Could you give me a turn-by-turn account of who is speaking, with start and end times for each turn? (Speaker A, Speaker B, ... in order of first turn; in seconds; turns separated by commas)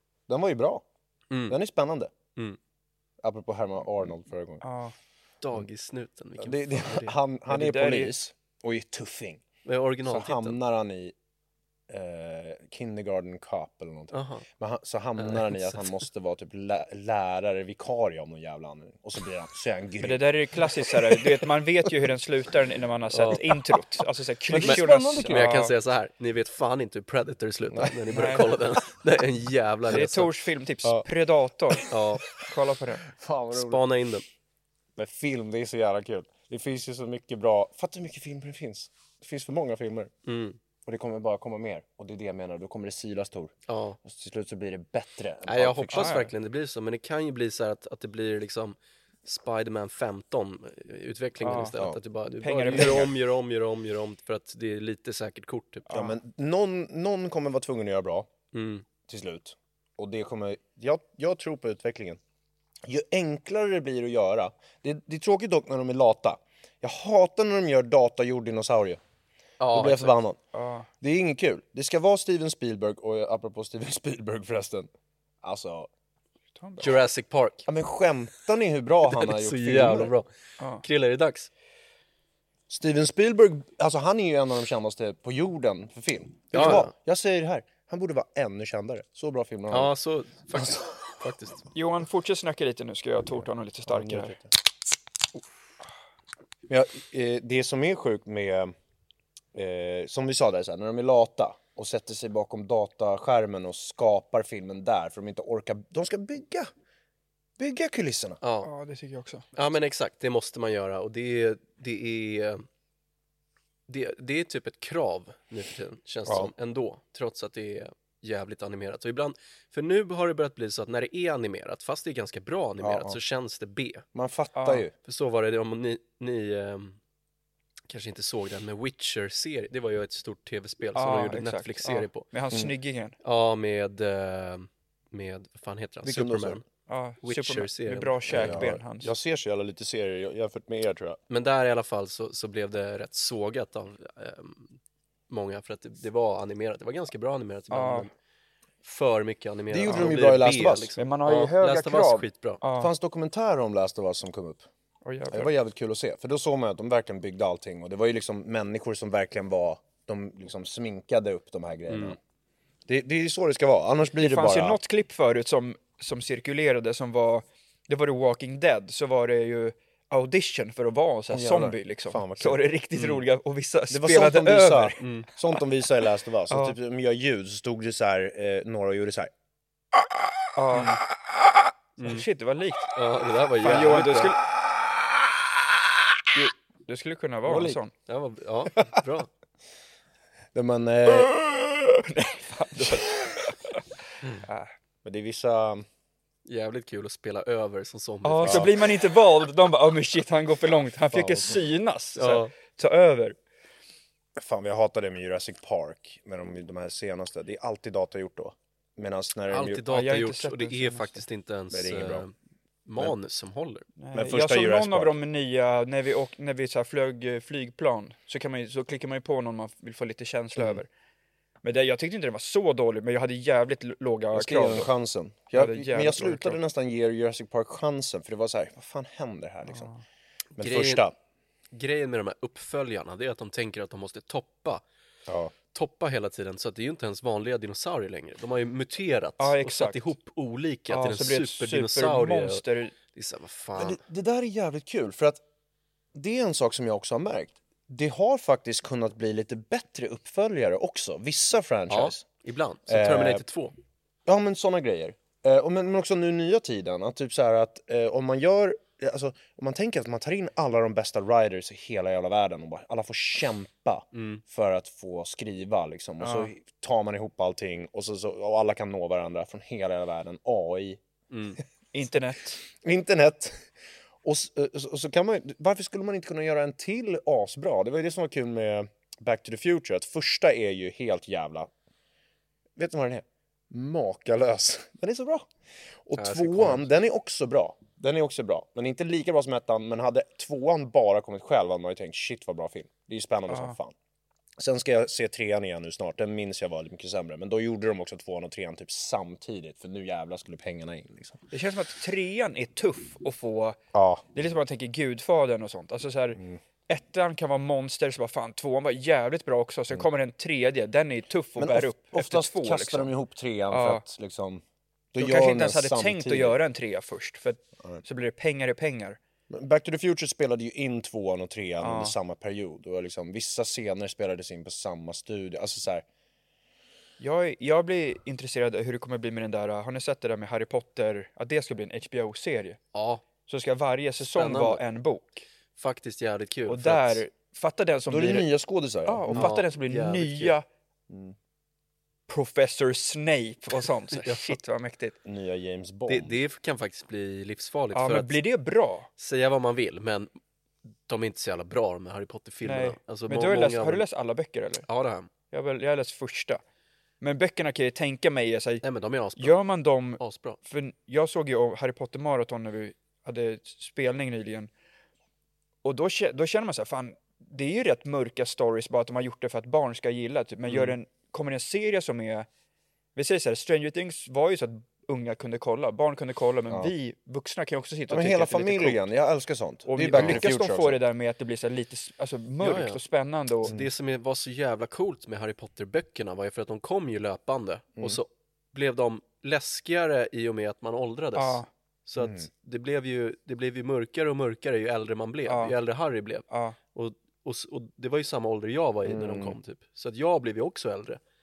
Speaker A: 0.3-0.8, Speaker B: 1.3-1.6, Speaker A: 1.5-2.1, Speaker A: 3.2-4.6, Speaker C: 4.6-4.9, Speaker B: 5.4-7.2, Speaker A: 6.4-9.4, Speaker C: 7.5-8.2, Speaker B: 9.6-10.6, Speaker A: 10.0-11.1, Speaker A: 11.9-21.2, Speaker B: 14.1-14.4, Speaker B: 15.2-15.9, Speaker C: 20.0-25.7, Speaker B: 23.1-23.4, Speaker A: 24.5-25.6, Speaker B: 24.6-30.3, Speaker A: 27.7-28.7, Speaker C: 28.1-28.5, Speaker C: 29.9-33.0, Speaker B: 31.9-32.3, Speaker A: 33.0-33.8, Speaker B: 33.5-34.2, Speaker A: 35.0-40.1, Speaker B: 40.2-40.6, Speaker A: 40.8-46.2, Speaker B: 43.7-44.0, Speaker B: 45.5-55.9, Speaker C: 45.9-46.3, Speaker C: 51.4-51.7, Speaker C: 52.4-53.1, Speaker A: 52.7-53.1, Speaker C: 55.9-56.1, Speaker A: 55.9-58.3, Speaker B: 58.5-58.8, Speaker A: 59.0-62.2, Speaker A: 62.8-69.0, Speaker B: 69.6-70.1, Speaker A: 69.7-70.4, Speaker C: 70.5-70.9, Speaker A: 71.0-74.9, Speaker A: 75.4-75.9, Speaker C: 76.5-76.9, Speaker B: 76.8-77.7, Speaker A: 77.7-80.1, Speaker B: 79.0-80.3, Speaker C: 80.6-80.8, Speaker B: 80.8-81.5, Speaker A: 82.7-89.9, Speaker B: 86.5-86.9, Speaker B: 89.7-91.6, Speaker A: 90.6-90.8, Speaker C: 91.7-94.3, Speaker A: 93.8-94.5, Speaker A: 96.7-98.7, Speaker A: 99.5-106.7, Speaker A: 107.6-108.4, Speaker B: 108.4-108.7, Speaker C: 108.6-109.4, Speaker B: 109.5-112.6, Speaker B: 113.9-124.0, Speaker A: 116.2-116.5, Speaker A: 122.8-123.2, Speaker A: 124.1-124.9, Speaker C: 124.5-124.8, Speaker B: 125.0-127.0, Speaker B: 127.9-132.2, Speaker C: 130.9-133.2, Speaker B: 133.2-136.6, Speaker A: 136.0-136.6, Speaker C: 136.9-139.1, Speaker B: 137.2-138.6, Speaker A: 138.3-141.2, Speaker B: 141.3-144.8, Speaker B: 145.3-148.1, Speaker C: 147.7-148.1, Speaker B: 148.8-152.6, Speaker A: 149.7-150.9, Speaker C: 151.0-152.9, Speaker A: 152.8-154.7, Speaker C: 155.0-155.5, Speaker A: 155.3-162.2, Speaker B: 161.9-162.2, Speaker A: 162.9-164.8, Speaker C: 164.2-175.0, Speaker A: 171.3-172.6, Speaker B: 173.0-173.2, Speaker A: 173.9-179.3, Speaker B: 175.0-175.3, Speaker C: 176.5-176.8, Speaker C: 180.6-181.0, Speaker B: 182.0-182.2, Speaker C: 182.0-182.9, Speaker B: 182.9-184.3, Speaker C: 183.6-184.4, Speaker C: 186.3-187.9, Speaker A: 187.4-187.8, Speaker B: 188.1-189.3, Speaker A: 190.5-191.3, Speaker C: 191.1-193.7, Speaker C: 194.4-194.7, Speaker A: 195.0-195.8, Speaker B: 196.4-198.7, Speaker C: 198.2-203.3, Speaker A: 198.4-198.7, Speaker A: 201.1-201.6, Speaker B: 202.2-202.5, Speaker A: 204.4-209.8, Speaker B: 209.5-212.3, Speaker C: 209.9-211.2, Speaker A: 211.7-212.2, Speaker B: 212.8-213.8, Speaker C: 214.0-220.9, Speaker A: 214.1-215.1, Speaker C: 221.6-224.9, Speaker A: 224.3-229.9, Speaker C: 225.5-226.6, Speaker C: 229.7-230.0, Speaker B: 230.6-231.0, Speaker A: 230.6-231.1, Speaker B: 231.7-234.8, Speaker A: 235.3-235.5, Speaker B: 235.7-244.0, Speaker C: 239.4-240.1, Speaker C: 240.9-242.9, Speaker A: 243.8-245.4, Speaker A: 246.1-252.2, Speaker B: 251.9-253.7, Speaker A: 252.9-253.4, Speaker A: 254.2-271.0, Speaker B: 264.1-264.4, Speaker C: 266.2-266.5, Speaker B: 271.3-271.6, Speaker C: 271.9-272.6, Speaker A: 272.6-273.7, Speaker A: 274.2-281.7, Speaker A: 282.8-285.5, Speaker A: 286.0-293.9, Speaker B: 286.2-286.8, Speaker C: 293.5-293.8, Speaker A: 294.6-301.4, Speaker C: 301.5-303.8, Speaker A: 303.9-304.2, Speaker C: 304.3-313.1, Speaker A: 311.6-316.6, Speaker C: 313.7-314.0, Speaker C: 315.2-319.2, Speaker A: 319.5-326.0, Speaker C: 321.8-322.1, Speaker C: 327.2-332.8, Speaker B: 332.9-333.2, Speaker C: 333.5-335.4, Speaker B: 334.3-334.8, Speaker B: 335.8-337.2, Speaker C: 336.7-338.5, Speaker A: 338.1-339.5, Speaker C: 339.1-340.6, Speaker B: 339.3-340.6, Speaker A: 341.1-341.3, Speaker C: 342.3-345.1, Speaker B: 344.1-344.6, Speaker A: 345.2-346.4, Speaker B: 346.1-348.4, Speaker C: 347.9-349.1, Speaker B: 349.2-350.3, Speaker B: 351.1-354.1, Speaker C: 352.6-354.9, Speaker B: 354.9-355.3, Speaker C: 355.5-356.6, Speaker C: 357.2-358.8, Speaker B: 358.8-359.6, Speaker C: 359.4-364.7, Speaker B: 360.2-360.6, Speaker C: 365.8-372.5, Speaker C: 373.1-379.0, Speaker A: 378.1-381.0, Speaker C: 379.9-383.7, Speaker B: 380.1-380.4, Speaker B: 382.6-383.0, Speaker B: 383.6-401.2, Speaker A: 383.6-383.9, Speaker C: 391.3-391.6, Speaker A: 392.1-392.5, Speaker C: 395.5-395.7, Speaker C: 396.5-396.8, Speaker A: 399.0-399.6